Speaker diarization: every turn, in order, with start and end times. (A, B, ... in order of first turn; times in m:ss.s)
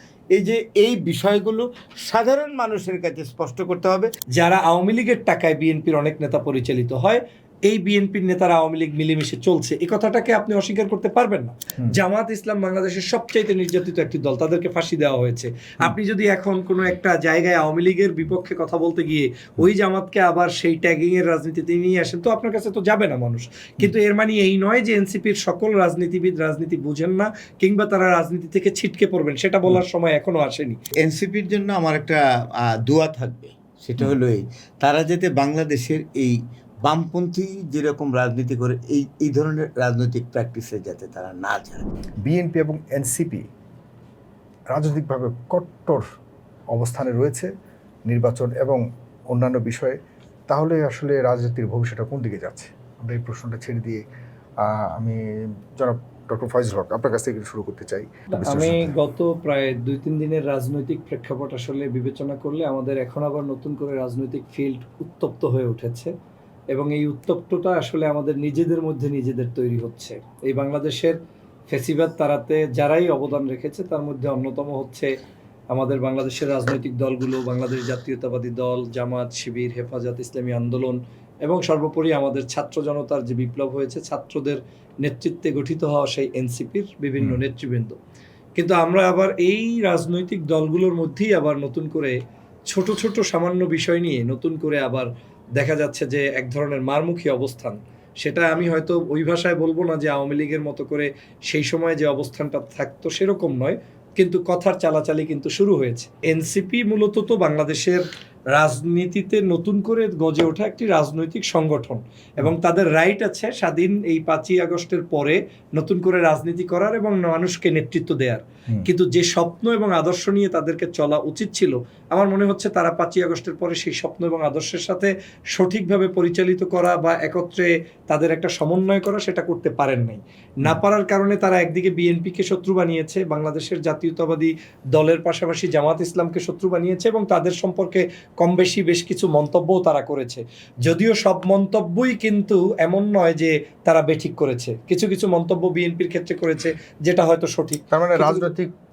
0:00.4-0:04.1 A
0:04.4-0:30.8 B
0:31.0-0:41.8 A
0:42.2-0:43.4 C
0:44.7-0:46.0 C
0:46.7-0:47.5 C
0:48.1-0:50.0 C
0:50.5-0:54.0 C
0:54.6-0:55.2 C
0:55.8-0:58.9 C
0:58.3-1:06.1 B
1:06.7-1:11.2 B
1:11.7-1:15.1 B
1:15.7-1:28.0 B
1:27.2-1:27.4 C
1:28.6-1:32.1 B
1:32.7-2:28.5 B
2:27.9-2:28.7 C